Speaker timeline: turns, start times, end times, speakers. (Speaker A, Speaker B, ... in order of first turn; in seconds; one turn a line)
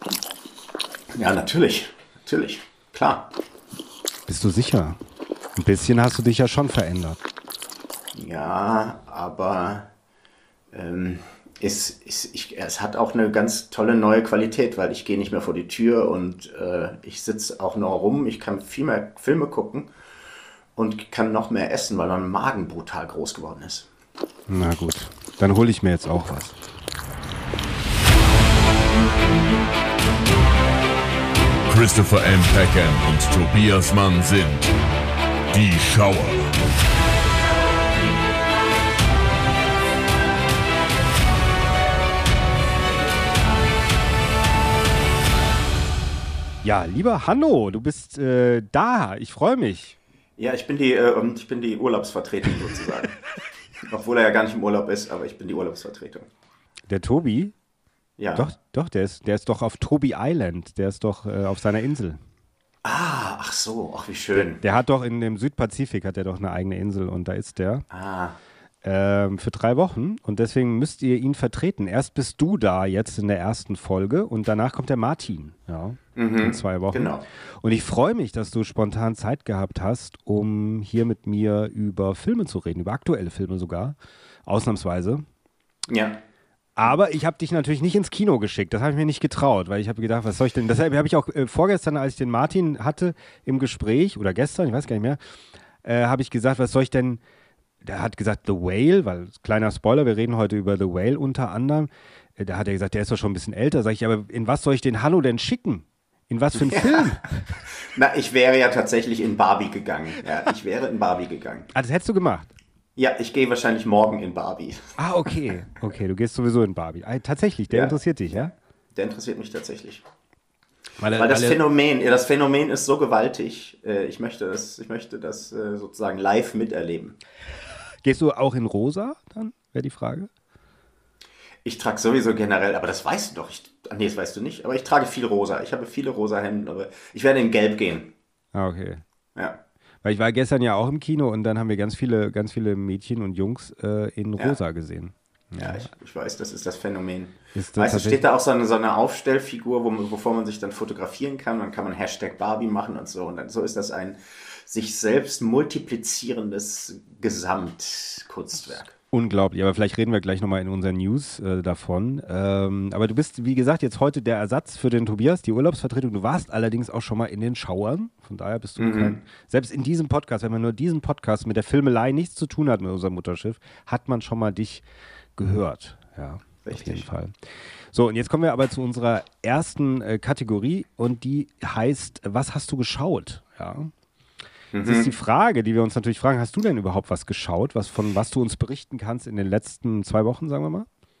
Speaker A: 1.1-3.3
Speaker B: 4.3-5.0
Speaker B: 5.5-7.2
Speaker A: 8.1-9.9
Speaker A: 10.7-19.9
Speaker A: 20.8-23.9
Speaker B: 24.5-26.6
Speaker C: 31.7-34.7
Speaker C: 35.5-36.6
Speaker B: 46.6-50.0
Speaker A: 50.4-53.2
Speaker A: 53.9-56.3
Speaker B: 56.9-57.5
Speaker A: 58.2-58.5
Speaker B: 58.3-62.2
Speaker A: 62.8-64.6
Speaker B: 64.3-67.8
Speaker A: 67.9-68.4
Speaker B: 68.8-85.2
Speaker A: 76.1-77.2
Speaker A: 85.9-86.2
Speaker B: 86.8-95.2
Speaker B: 95.8-97.2
Speaker B: 97.8-107.3
Speaker A: 106.5-107.1
Speaker A: 107.7-111.7
Speaker B: 111.7-112.5
Speaker A: 113.0-115.6
Speaker B: 115.0-118.5
Speaker A: 117.7-120.0
Speaker B: 121.0-121.6
Speaker A: 121.1-127.2
Speaker B: 128.0-130.3
Speaker A: 131.6-138.1
Speaker B: 138.5-139.0
Speaker A: 139.3-139.6
Speaker B: 140.0-145.9
Speaker A: 145.6-158.9
Speaker B: 147.5-148.2
Speaker B: 159.1-174.8
Speaker A: 168.8-169.2
Speaker B: 175.3-177.4
Speaker A: 176.6-177.1
Speaker B: 177.9-183.9
Speaker A: 184.7-185.1
Speaker B: 184.8-190.9